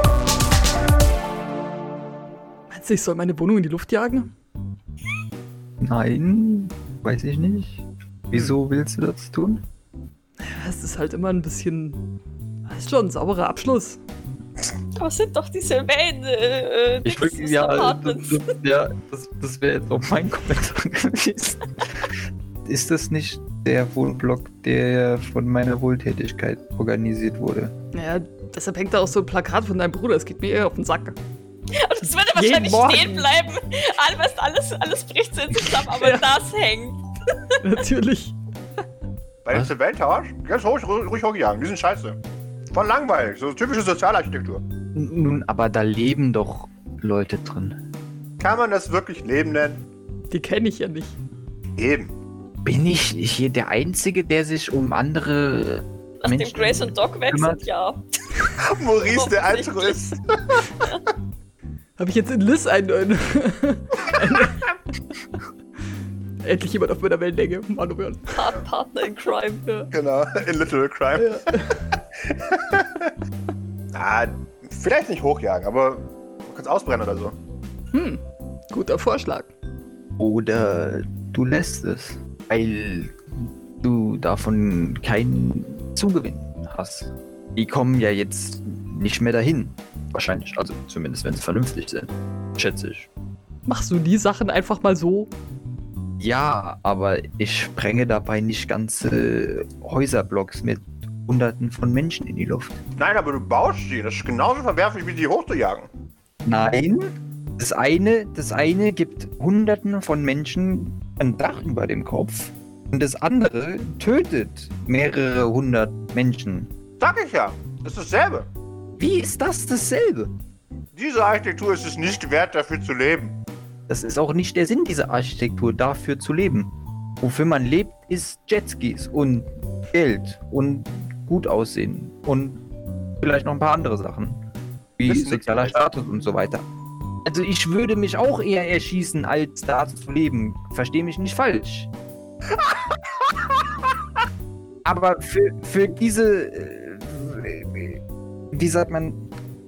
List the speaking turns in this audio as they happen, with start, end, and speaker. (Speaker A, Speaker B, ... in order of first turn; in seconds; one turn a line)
Speaker A: 2.7-4.3
Speaker B: 5.8-9.6
Speaker A: 10.4-12.0
Speaker A: 12.7-14.0
Speaker C: 14.9-18.5
Speaker B: 17.0-22.1
Speaker B: 22.6-27.7
Speaker A: 27.9-31.1
Speaker C: 31.7-37.3
Speaker A: 32.2-33.3
Speaker A: 35.8-36.2
Speaker A: 37.6-38.4
Speaker D: 39.4-42.2
Speaker D: 42.7-44.6
Speaker B: 44.9-47.8
Speaker D: 48.4-49.8
Speaker A: 50.3-51.2
Speaker D: 51.8-52.1
Speaker B: 52.6-57.6
Speaker C: 56.2-58.0
Speaker D: 58.6-60.7
Speaker C: 59.0-60.0
Speaker A: 62.0-64.7
Speaker A: 66.4-68.4
Speaker C: 68.3-69.6
Speaker D: 69.9-73.1
Speaker A: 71.2-71.8
Speaker D: 73.9-77.4
Speaker A: 77.9-78.2
Speaker A: 78.7-79.5
Speaker B: 80.2-93.1
Speaker A: 93.7-95.3
Speaker B: 96.2-102.8
Speaker D: 103.0-105.9
Speaker B: 106.4-116.7
Speaker D: 117.0-118.5
Speaker B: 119.0-120.3
Speaker D: 120.9-123.4
Speaker B: 123.9-132.6
Speaker B: 133.2-134.4
Speaker B: 135.0-136.6
Speaker D: 135.1-135.8
Speaker B: 137.2-141.9
Speaker B: 144.8-149.2